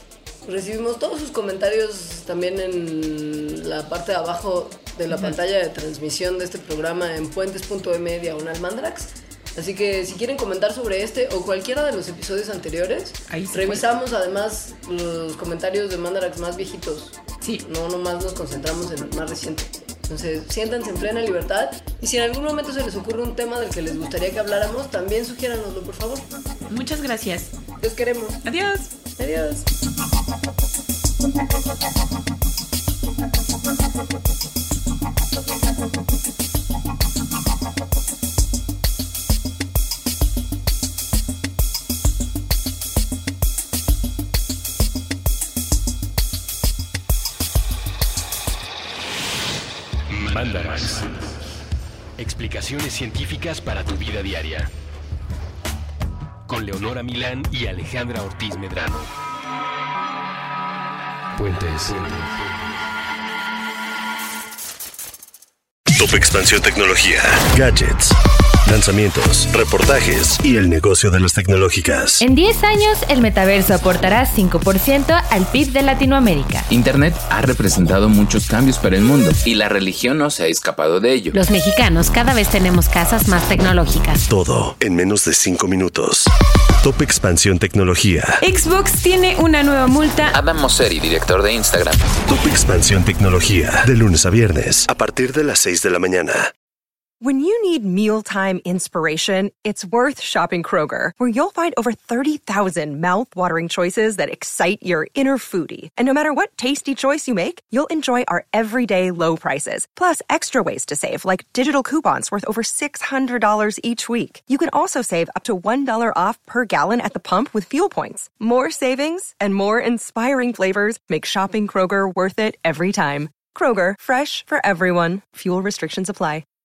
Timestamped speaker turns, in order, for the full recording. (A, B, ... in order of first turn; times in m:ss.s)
0:00.4-0:26.3 A
0:13.3-0:13.8 B
0:26.7-0:27.6 B
0:27.8-0:28.4 A
0:28.4-0:28.9 B
0:29.2-0:29.6 A
0:50.1-0:51.2 C
0:52.2-0:54.7 C
0:56.4-0:59.1 C
1:01.3-1:02.6 C
1:06.0-1:08.1 D
1:08.7-1:12.2 D
1:12.2-1:16.7 E
1:16.7-1:21.3 F
1:21.3-1:24.3 E
1:24.3-1:26.3 D
1:26.8-1:28.4 D
1:28.4-1:30.4 E
1:30.3-1:32.0 F
1:32.3-1:36.5 D
1:37.2-2:06.4 G